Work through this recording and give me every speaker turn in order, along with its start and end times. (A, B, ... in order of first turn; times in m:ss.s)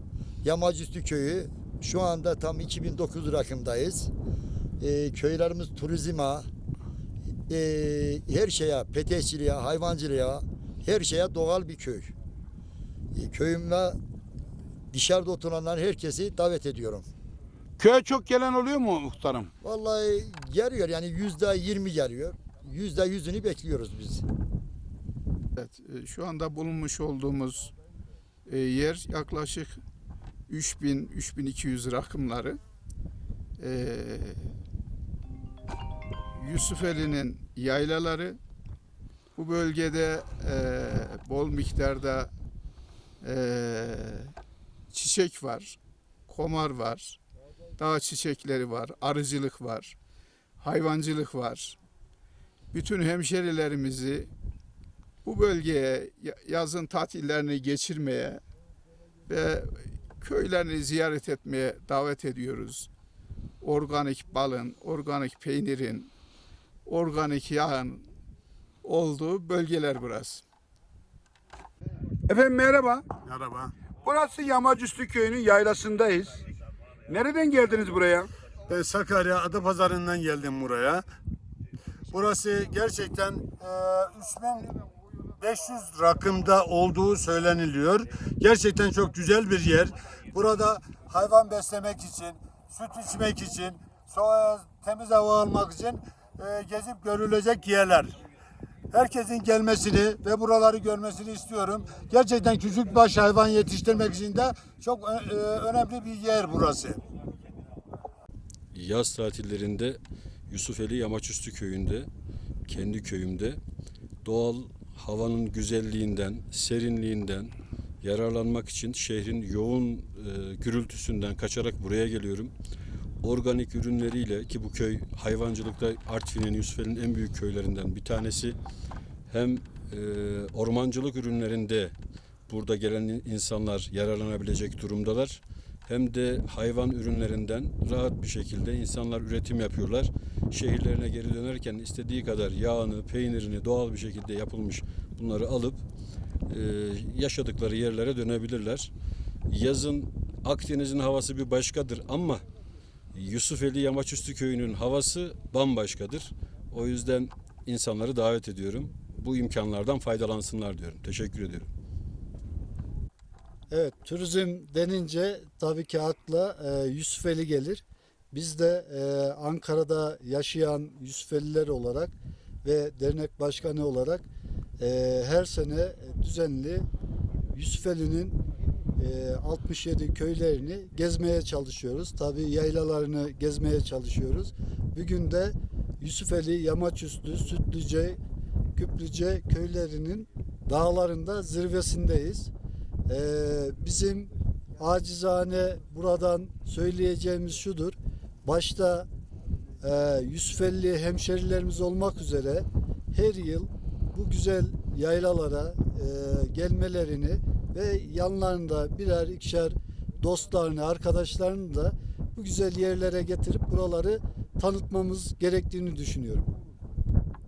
0:00.4-0:04.1 A
0:04.8-0:06.5 A
0:07.5-0:12.1 A
0:13.1-0:14.0 A
0:14.9-0:17.1 A
0:17.8-0:19.5 B
0:19.6-0:24.2 A
0:25.6-0:27.7 C
0:28.4-0:29.8 C
0:30.5-0:32.6 C
0:33.6-0:34.5 C
0:36.4-0:38.4 C
0:39.3-0:42.3 C
0:43.2-0:44.3 C
0:44.9-0:47.2 C
0:47.8-0:50.0 C
0:50.6-0:51.8 C
0:52.7-0:54.3 C
0:55.2-0:58.4 C
0:59.3-1:02.9 C
1:03.6-1:06.1 C
1:06.8-1:08.1 C
1:08.8-1:10.4 C
1:12.3-1:13.1 B
1:13.2-1:13.7 D
1:14.0-1:16.4 B
1:17.1-1:18.3 B
1:18.7-1:21.0 D
1:22.1-1:24.7 D
1:25.4-1:38.1 D
1:38.9-1:47.0 D
1:48.7-1:52.1 E
1:52.7-1:53.6 E
1:54.2-2:02.5 E
2:03.2-2:08.6 E
2:09.3-2:11.9 E
2:12.5-2:25.8 E
2:26.5-2:28.9 E
2:29.5-2:32.4 E
2:33.1-2:41.7 E
2:43.7-2:54.2 F
2:54.8-2:56.9 F
2:57.5-2:58.4 F
2:59.0-3:08.2 F
3:08.8-3:12.5 F
3:13.1-3:14.3 F
3:14.8-3:19.1 F
3:19.8-3:36.5 F